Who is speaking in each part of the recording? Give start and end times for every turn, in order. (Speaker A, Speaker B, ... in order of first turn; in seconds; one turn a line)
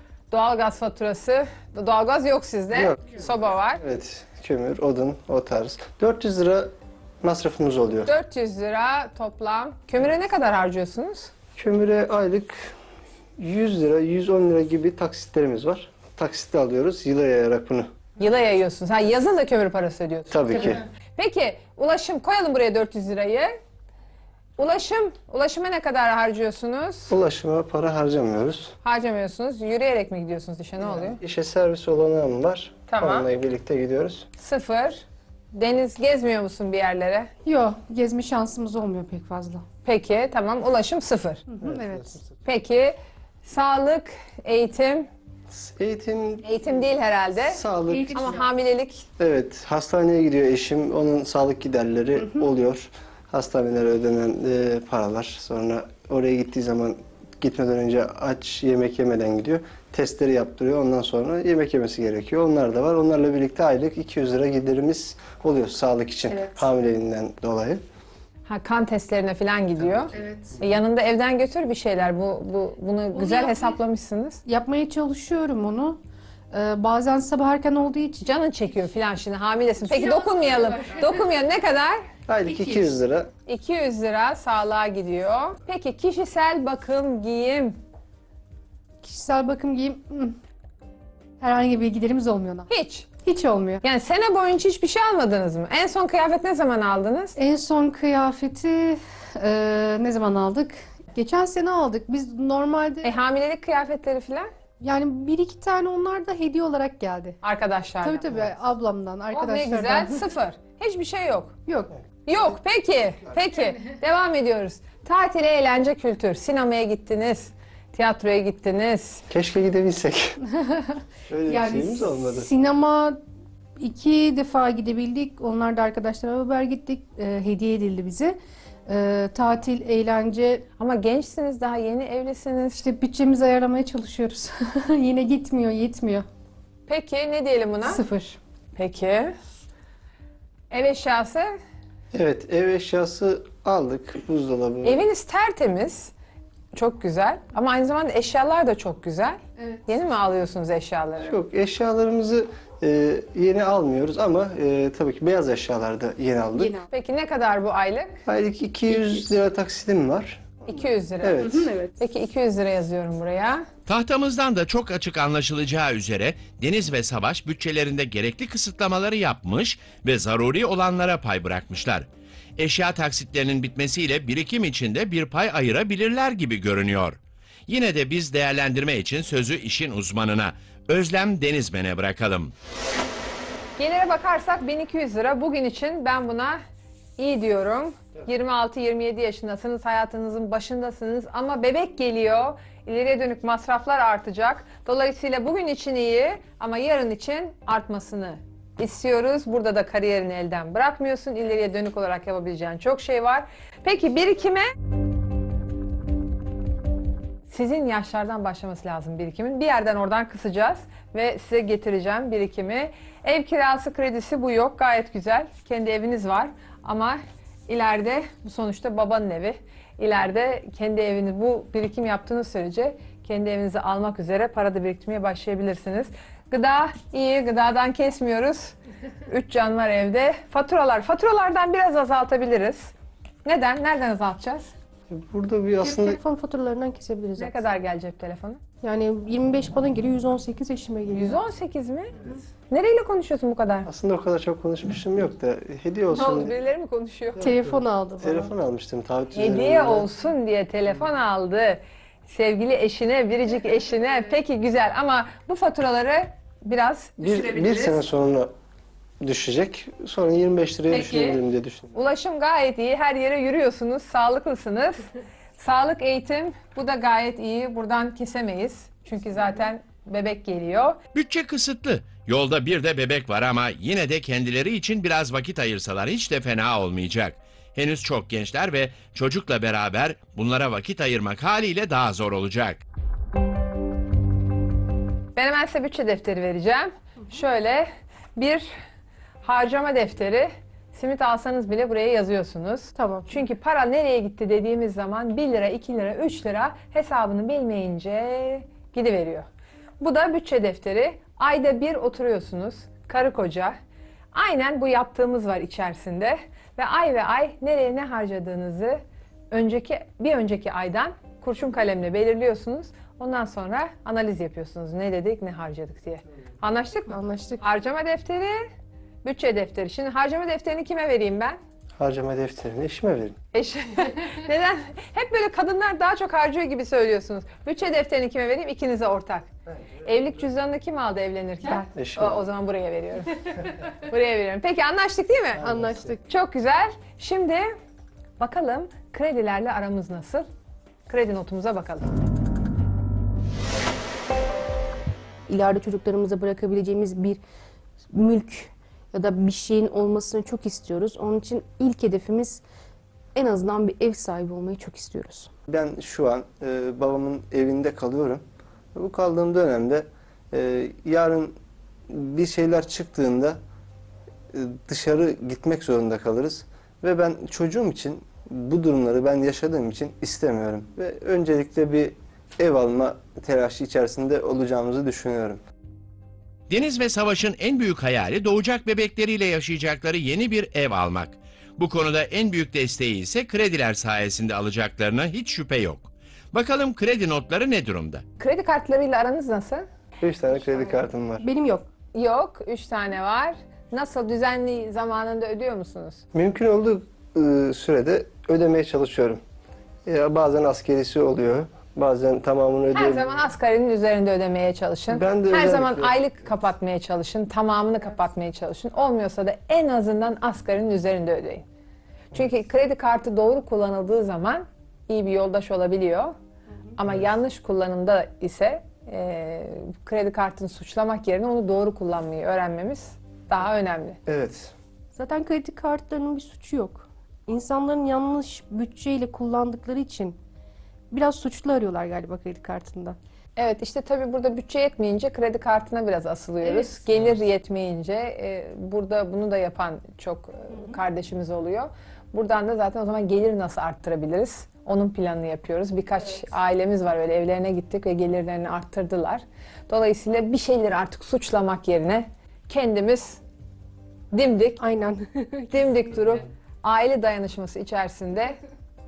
Speaker A: 0.3-3.8
Speaker B: 2.7-8.1
Speaker A: 8.1-11.3
Speaker B: 11.6-12.7
Speaker B: 13.4-17.9
Speaker A: 18.2-23.6
Speaker B: 20.3-20.8
Speaker A: 24.6-27.1
Speaker B: 27.1-28.7
Speaker A: 28.8-31.2
Speaker B: 30.8-34.3
Speaker A: 32.9-33.2
Speaker A: 34.4-37.3
Speaker C: 37.4-39.6
Speaker A: 39.9-41.5
Speaker C: 41.5-42.1
Speaker B: 41.6-42.3
Speaker A: 42.4-45.1
Speaker B: 45.5-46.7
Speaker A: 46.4-49.1
Speaker B: 47.4-48.3
Speaker C: 47.9-48.5
Speaker B: 49.2-67.8
Speaker C: 66.3-66.6
Speaker A: 68.5-74.4
Speaker C: 70.1-70.6
Speaker C: 73.1-73.8
Speaker C: 74.5-76.0
Speaker C: 76.5-78.2
Speaker A: 78.2-82.0
Speaker C: 79.9-81.3
Speaker B: 82.3-83.3
Speaker C: 82.5-82.8
Speaker A: 83.5-87.8
Speaker C: 89.0-90.4
Speaker C: 91.4-92.7
Speaker A: 92.7-93.1
Speaker C: 93.2-93.8
Speaker A: 93.8-97.4
Speaker C: 97.4-103.1
Speaker A: 103.0-104.5
Speaker C: 104.8-107.4
Speaker A: 107.4-108.3
Speaker C: 108.0-110.2
Speaker A: 109.3-111.6
Speaker C: 111.7-111.9
Speaker A: 112.2-119.2
Speaker B: 119.3-120.4
Speaker C: 120.6-123.2
Speaker B: 121.3-122.5
Speaker C: 123.8-130.6
Speaker A: 130.8-132.8
Speaker C: 132.8-136.3
Speaker A: 136.9-138.0
Speaker C: 137.8-138.4
Speaker A: 138.8-139.3
Speaker A: 140.7-141.6
Speaker B: 142.1-145.0
Speaker A: 144.8-146.1
Speaker A: 146.7-151.4
Speaker B: 151.2-156.8
Speaker C: 156.6-156.9
Speaker A: 156.9-158.2
Speaker B: 158.2-160.6
Speaker A: 160.7-161.4
Speaker B: 161.2-161.7
Speaker C: 161.4-162.0
Speaker A: 162.0-163.7
Speaker D: 163.9-172.1
Speaker D: 172.6-182.5
Speaker A: 183.8-186.6
Speaker A: 187.2-204.7
Speaker A: 207.5-228.7
Speaker A: 229.3-232.9
Speaker A: 233.4-234.7
Speaker B: 235.1-236.2
Speaker C: 235.8-237.6
Speaker A: 237.4-238.6
Speaker C: 238.8-241.4
Speaker A: 241.2-242.2
Speaker A: 242.7-243.9
Speaker B: 243.8-246.5
Speaker A: 246.1-247.4
Speaker C: 247.4-248.5
Speaker B: 247.4-250.1
Speaker A: 249.3-258.0
Speaker B: 257.2-258.5
Speaker B: 259.2-261.9
Speaker A: 260.9-261.4
Speaker A: 261.9-265.1
Speaker A: 265.6-271.0
Speaker D: 271.1-282.8
Speaker A: 285.4-288.7
Speaker A: 289.4-299.4
Speaker C: 292.9-293.3
Speaker A: 300.0-303.8
Speaker A: 304.3-318.7
Speaker C: 317.1-317.6
Speaker A: 319.2-321.6
Speaker B: 322.0-323.4
Speaker A: 323.5-329.5
Speaker A: 330.0-335.7
Speaker B: 331.9-332.4
Speaker B: 335.6-336.1
Speaker C: 335.6-336.2
Speaker A: 336.3-337.7
Speaker A: 338.4-340.4
Speaker A: 341.1-342.1
Speaker C: 345.5-347.4
Speaker C: 348.1-352.6
Speaker C: 353.3-355.5
Speaker B: 355.7-361.6
Speaker B: 362.1-363.6
Speaker B: 364.5-375.6
Speaker D: 376.7-388.2
Speaker A: 388.4-389.9
Speaker B: 390.2-391.4
Speaker C: 391.4-391.9
Speaker A: 392.1-396.2
Speaker B: 396.3-399.4
Speaker B: 400.1-403.4
Speaker A: 402.9-411.6
Speaker B: 405.1-406.1
Speaker A: 412.3-416.3
Speaker A: 416.9-424.2
Speaker B: 424.3-424.7
Speaker C: 425.1-430.4
Speaker C: 431.1-433.2
Speaker A: 433.6-453.4
Speaker C: 436.6-437.0
Speaker A: 454.3-454.8
Speaker C: 454.8-455.9
Speaker A: 455.7-458.6